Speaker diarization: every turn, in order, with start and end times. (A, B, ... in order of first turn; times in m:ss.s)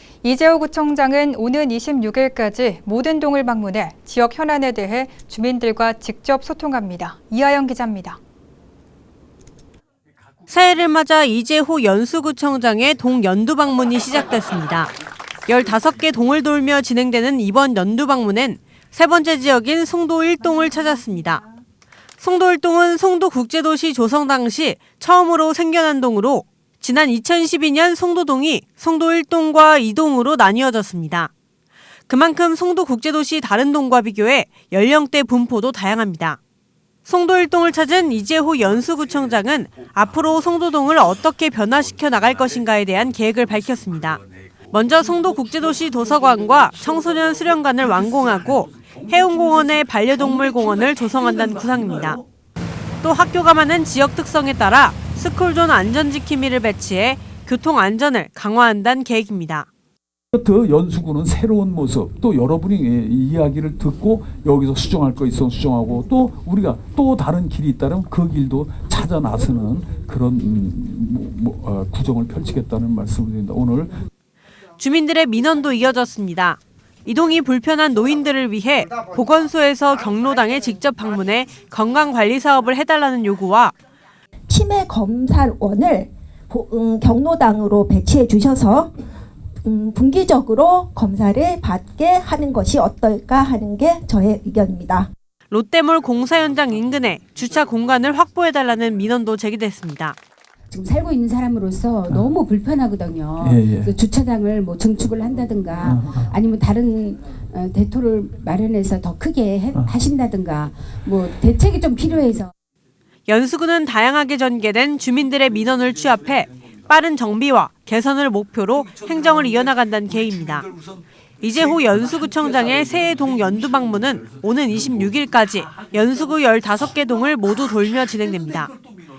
0:00.2-0:08.2 A
0:10.5-0:14.9 B
0:15.5-0:21.4 B
0:22.2-0:31.3 B
0:32.1-0:36.4 B
0:37.1-0:52.2 B
0:53.0-0:59.7 B
1:00.3-1:13.9 C
1:14.8-1:23.8 B
1:24.5-1:28.9 D
1:29.6-1:35.1 D
1:35.5-1:40.2 B
1:40.7-1:52.5 E
1:43.4-1:43.9 C
1:45.8-1:46.2 C
1:53.3-2:00.7 B
2:01.4-2:08.7 B